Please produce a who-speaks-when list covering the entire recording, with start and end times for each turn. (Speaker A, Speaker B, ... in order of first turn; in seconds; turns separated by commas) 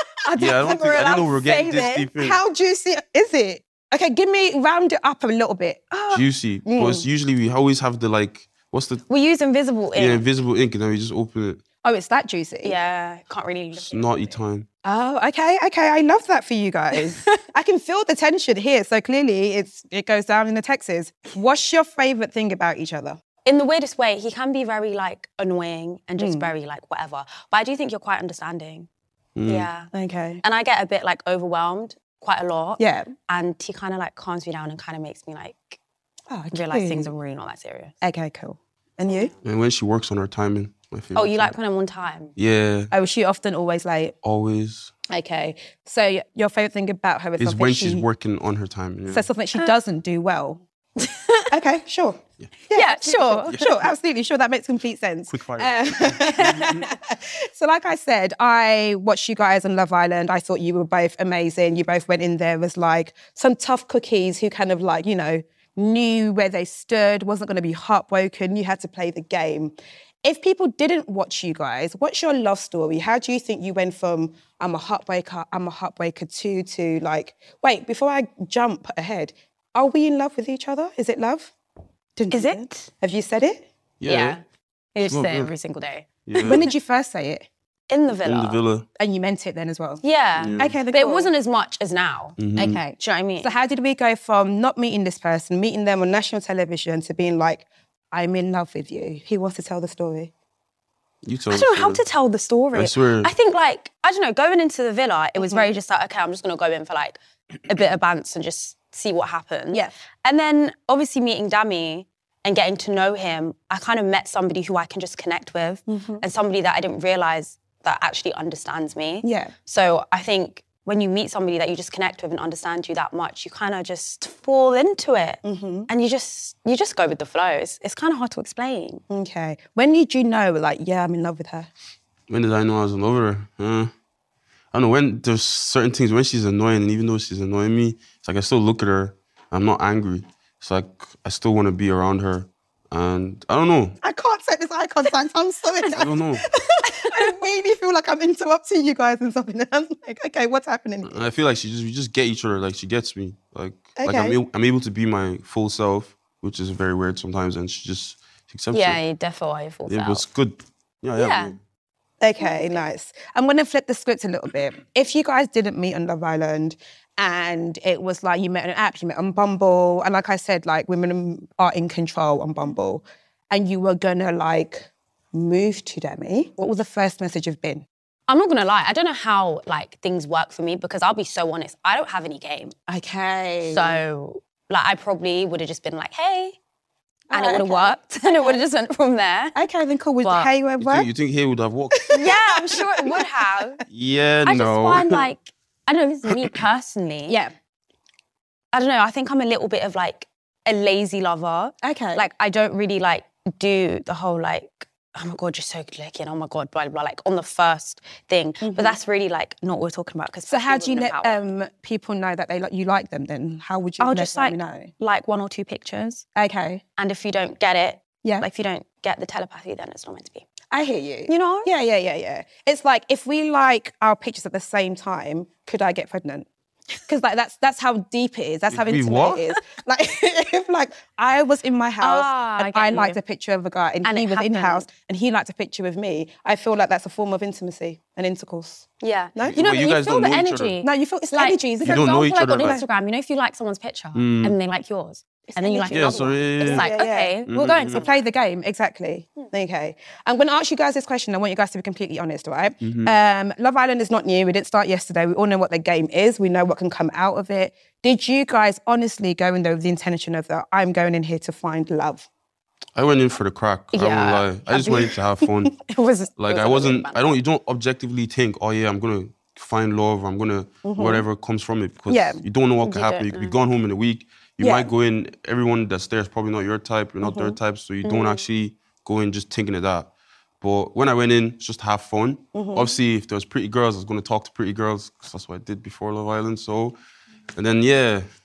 Speaker A: 0.2-7.1, Speaker B: 0.3-2.4, Speaker C: 0.7-1.8, Speaker B: 6.1-9.0, Speaker C: 9.1-10.2, Speaker B: 9.9-11.6, Speaker A: 11.8-12.8, Speaker C: 12.6-14.3, Speaker B: 13.8-14.7, Speaker A: 14.8-23.2, Speaker C: 23.4-28.9, Speaker A: 26.2-26.5, Speaker B: 29.4-29.7, Speaker C: 29.5-29.9, Speaker A: 29.9-30.4, Speaker C: 30.4-35.8, Speaker A: 32.8-33.1, Speaker A: 36.3-37.1, Speaker C: 36.5-37.9, Speaker A: 38.0-39.3, Speaker C: 39.1-39.3, Speaker B: 39.4-41.6, Speaker C: 41.1-42.3, Speaker B: 42.4-42.9, Speaker A: 42.9-44.1, Speaker B: 44.2-44.9, Speaker A: 45.1-48.1, Speaker B: 47.4-49.3, Speaker A: 49.1-50.6, Speaker C: 51.0-51.5, Speaker A: 51.5-81.5, Speaker C: 52.7-53.7, Speaker B: 55.3-56.9, Speaker A: 82.2-83.7, Speaker C: 82.3-82.9, Speaker B: 84.0-84.4, Speaker C: 84.0-84.4, Speaker C: 85.0-86.6, Speaker B: 85.0-85.5, Speaker B: 86.3-86.7, Speaker A: 86.4-87.5, Speaker C: 87.9-88.6, Speaker B: 88.2-88.8, Speaker A: 89.0-90.0, Speaker C: 90.0-93.5, Speaker B: 90.3-90.7, Speaker A: 90.5-91.3, Speaker B: 92.4-92.8, Speaker A: 93.4-100.3, Speaker B: 101.2-102.0, Speaker C: 101.5-129.0, Speaker B: 102.7-103.3, Speaker A: 105.4-105.7, Speaker A: 115.9-116.2, Speaker A: 119.2-119.5, Speaker A: 125.5-125.9, Speaker A: 129.1-131.7, Speaker B: 132.3-133.9, Speaker B: 134.7-144.0, Speaker A: 144.0-151.2, Speaker B: 145.9-146.4, Speaker B: 151.0-159.0, Speaker A: 154.0-154.4, Speaker C: 158.7-160.2, Speaker B: 159.9-161.6, Speaker C: 161.2-161.6, Speaker A: 162.2-177.8, Speaker C: 162.4-162.7, Speaker C: 178.3-182.7, Speaker A: 182.9-184.0, Speaker C: 183.7-186.6, Speaker A: 187.3-188.6, Speaker C: 187.3-189.6, Speaker A: 189.5-191.1, Speaker C: 190.2-190.5, Speaker B: 190.8-192.1, Speaker A: 191.9-193.7, Speaker C: 192.1-193.8, Speaker B: 193.9-195.2, Speaker C: 194.4-197.4, Speaker A: 197.3-197.5, Speaker C: 198.7-211.3, Speaker A: 201.8-202.2, Speaker A: 208.6-209.0, Speaker A: 210.5-214.9, Speaker C: 214.0-216.2, Speaker A: 216.3-216.8, Speaker C: 217.0-220.5, Speaker A: 220.7-226.5, Speaker C: 221.3-221.7, Speaker A: 227.1-239.6, Speaker B: 228.7-229.4, Speaker C: 232.0-233.2, Speaker C: 234.0-234.8, Speaker C: 239.0-248.3, Speaker B: 239.5-240.8, Speaker A: 240.8-242.8, Speaker B: 241.8-242.8, Speaker B: 244.1-244.6, Speaker A: 245.5-262.3, Speaker B: 245.9-246.9, Speaker B: 247.5-248.1, Speaker B: 252.8-253.2, Speaker B: 263.0-265.8, Speaker C: 263.9-265.2, Speaker C: 265.8-267.4, Speaker B: 266.4-287.0, Speaker A: 270.8-271.2, Speaker A: 272.1-272.4, Speaker C: 272.8-273.6, Speaker A: 274.6-274.9, Speaker A: 277.2-277.6, Speaker C: 278.0-278.4, Speaker A: 282.5-282.9, Speaker B: 287.5-288.3